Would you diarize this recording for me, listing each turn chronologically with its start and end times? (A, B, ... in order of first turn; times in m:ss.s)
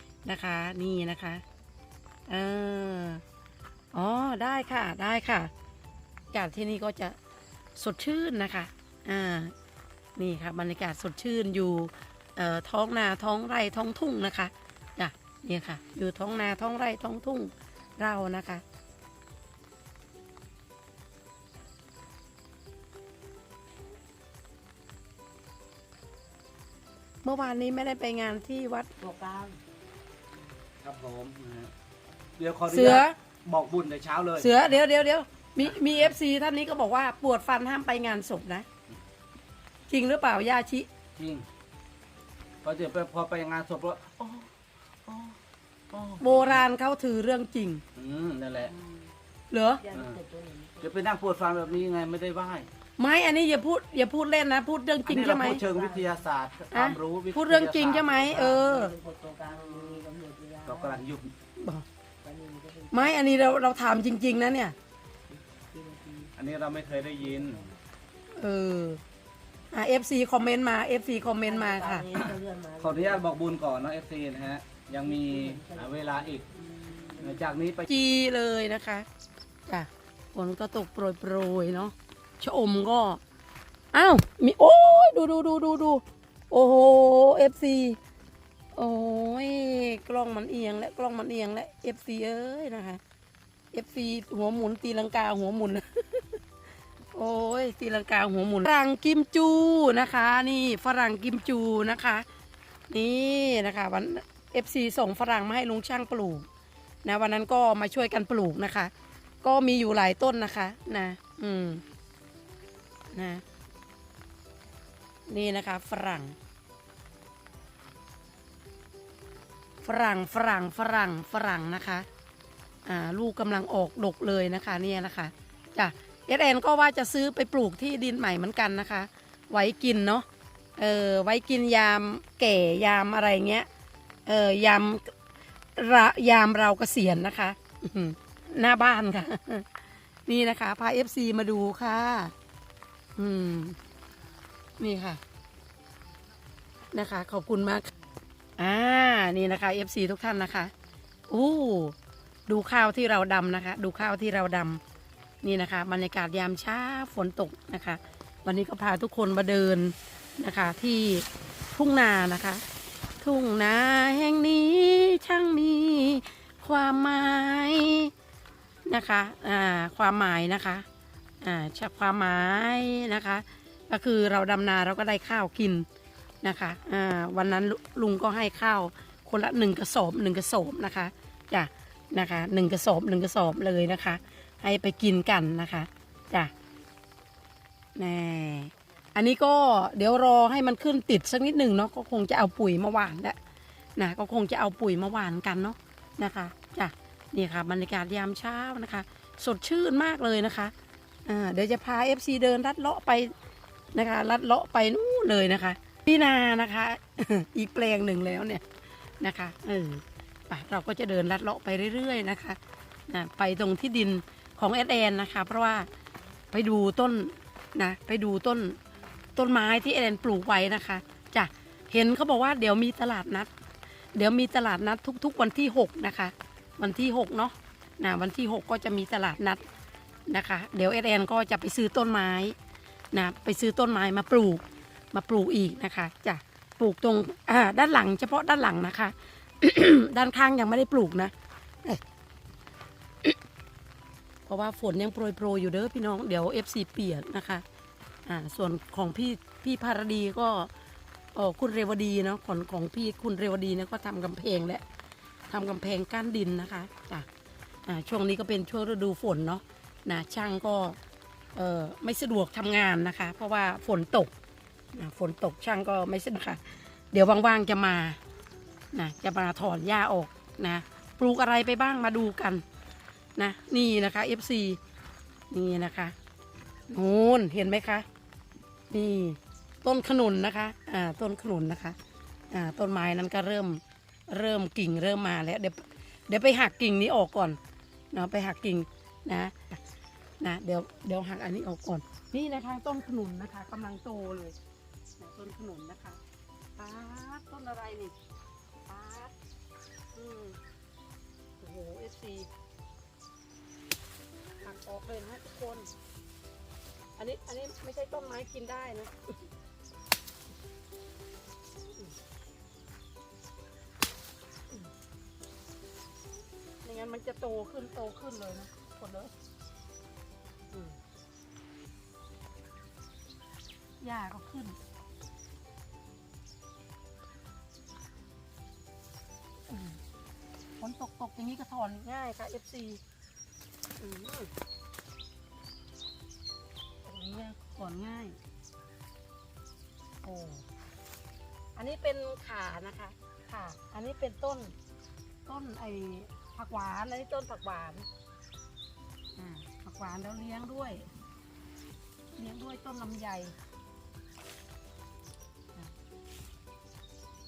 0:00.2-0:01.4 A
0:02.3-0:03.2 A
0:03.9-0:05.5 A
0:06.3-0:07.2 A
0:07.8-0:09.5 A
0:10.2-0:18.6 A
0:27.2-0:28.9 A
0:29.0-0:29.6 B
0:30.8-0:31.7 C
0:32.4-0:34.8 C
0:32.7-0:33.2 A
0:34.4-0:38.6 A
0:39.9-0:40.9 A
0:41.2-0:41.4 C
0:42.6-0:44.5 C
0:45.0-0:45.4 C
0:45.9-0:46.6 C
0:46.2-0:47.8 A
0:48.0-0:48.7 C
0:48.7-0:49.0 B
0:49.5-0:49.8 A
0:49.8-0:51.2 B
0:49.9-0:50.2 C
0:50.8-0:52.7 C
0:53.0-0:55.6 A
0:55.0-0:58.6 C
0:55.2-0:56.2 B
0:56.7-0:58.9 A
0:58.3-1:01.0 B
0:59.7-1:00.0 C
1:00.6-1:01.3 C
1:01.6-1:01.8 A
1:02.2-1:03.7 B
1:02.9-1:04.8 A
1:05.3-1:06.3 B
1:06.4-1:07.6 C
1:07.2-1:07.8 B
1:08.3-1:09.0 A
1:09.7-1:12.1 A
1:11.3-1:13.3 B
1:12.1-1:16.4 C
1:15.0-1:17.5 B
1:17.2-1:17.9 C
1:17.8-1:19.1 A
1:19.7-1:23.2 A
1:23.9-1:28.0 A
1:28.7-1:33.0 A
1:33.7-1:36.4 A
1:37.1-1:42.2 A
1:42.9-1:46.5 A
1:47.0-1:48.9 A
1:49.4-1:51.8 A
1:53.1-1:53.4 A
1:55.3-1:56.4 A
1:59.8-2:02.1 A
2:02.8-2:10.2 A
2:10.8-2:13.7 A
2:14.3-2:15.1 A
2:15.8-2:22.3 A
2:23.2-2:23.8 A
2:24.8-2:25.2 A
2:26.9-2:27.9 A
2:28.6-2:30.7 A
2:31.3-2:31.9 A
2:32.5-2:34.8 A
2:35.4-2:42.6 A
2:43.2-2:48.1 A
2:48.8-2:50.8 A
2:51.4-2:55.9 A
2:56.4-3:06.5 A
3:08.0-3:13.4 A
3:14.0-3:20.7 A
3:21.2-3:23.3 A
3:23.9-3:28.6 A
3:29.2-3:35.9 A
3:36.5-3:38.8 A
3:39.3-3:43.5 A
3:44.1-3:49.6 A
3:50.3-3:52.6 A
3:53.1-4:01.3 A
4:04.4-4:07.6 A
4:08.2-4:10.7 A
4:11.3-4:14.8 A
4:15.5-4:17.3 A
4:17.8-4:21.0 A
4:21.5-4:24.3 A
4:24.9-4:28.2 A
4:28.9-4:32.6 A
4:33.4-4:34.8 A
4:35.5-4:36.1 A
4:36.9-4:38.0 A
4:38.9-4:42.0 A
4:42.5-4:47.6 A
4:48.1-4:49.8 A
4:50.4-4:54.6 A
4:55.2-4:56.2 A
4:56.8-4:58.2 A
4:58.9-4:59.3 A
5:00.1-5:00.6 A
5:01.6-5:02.5 A
5:04.6-5:05.9 A
5:07.2-5:09.4 A
5:16.8-5:19.3 A
5:20.7-5:21.0 A
5:24.0-5:24.8 A
5:29.7-5:30.0 A
5:30.8-5:33.0 A
5:34.0-5:34.5 A
5:37.0-5:38.4 A
5:40.2-5:40.6 A
5:41.8-5:44.8 A
5:45.4-5:48.1 A
5:49.4-5:51.1 A
5:52.4-5:53.5 A